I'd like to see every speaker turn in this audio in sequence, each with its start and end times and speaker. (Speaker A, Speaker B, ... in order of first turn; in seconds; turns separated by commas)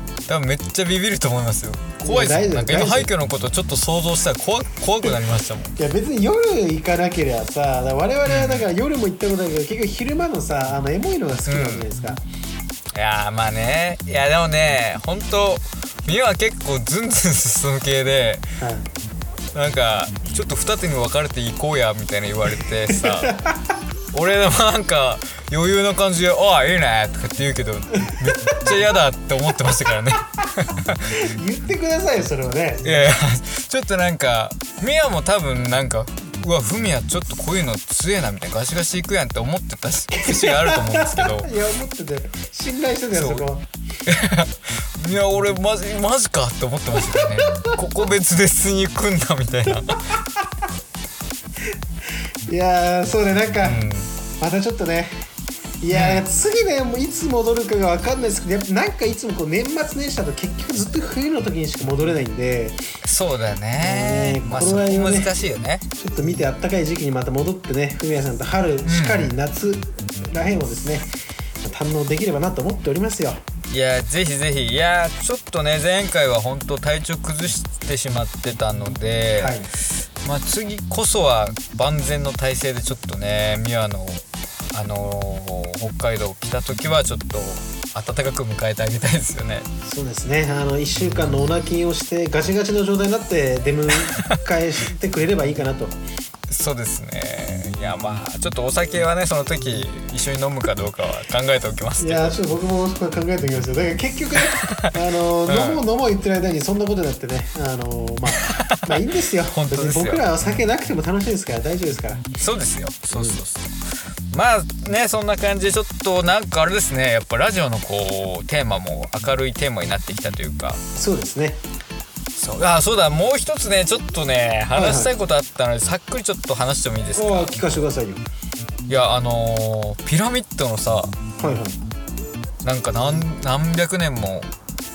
Speaker A: 0.3-5.8, Speaker B: 2.0-3.1, Speaker B: 5.8-12.2, Speaker A: 8.2-8.7, Speaker A: 11.5-11.9, Speaker A: 12.9-18.4, Speaker B: 18.6-18.9, Speaker A: 19.5-23.3, Speaker B: 22.8-23.8, Speaker A: 24.1-31.3, Speaker B: 28.0-28.7, Speaker B: 31.1-32.9, Speaker A: 32.8-41.5, Speaker B: 40.1-43.7, Speaker A: 43.1-43.5, Speaker A: 44.0-50.0, Speaker B: 47.2-47.8, Speaker B: 52.5-53.8, Speaker A: 53.6-54.1, Speaker B: 54.4-55.1, Speaker B: 55.8-62.8, Speaker A: 55.9-56.2, Speaker A: 63.0-65.8, Speaker B: 63.8-65.3, Speaker B: 66.0-71.1, Speaker A: 68.8-69.3, Speaker B: 71.6-73.4, Speaker A: 73.7-89.7, Speaker B: 79.4-79.7, Speaker B: 89.8-96.0, Speaker A: 94.1-94.4, Speaker A: 96.5-102.4, Speaker B: 102.0-112.2, Speaker A: 104.4-105.8, Speaker A: 108.3-110.6, Speaker A: 112.4-113.8, Speaker B: 113.1-113.4, Speaker A: 114.3-120.8, Speaker B: 121.0-121.6, Speaker A: 122.3-127.6, Speaker B: 124.8-125.1, Speaker B: 127.1-128.2, Speaker A: 128.9-131.1, Speaker B: 131.4-131.8, Speaker A: 132.6-134.5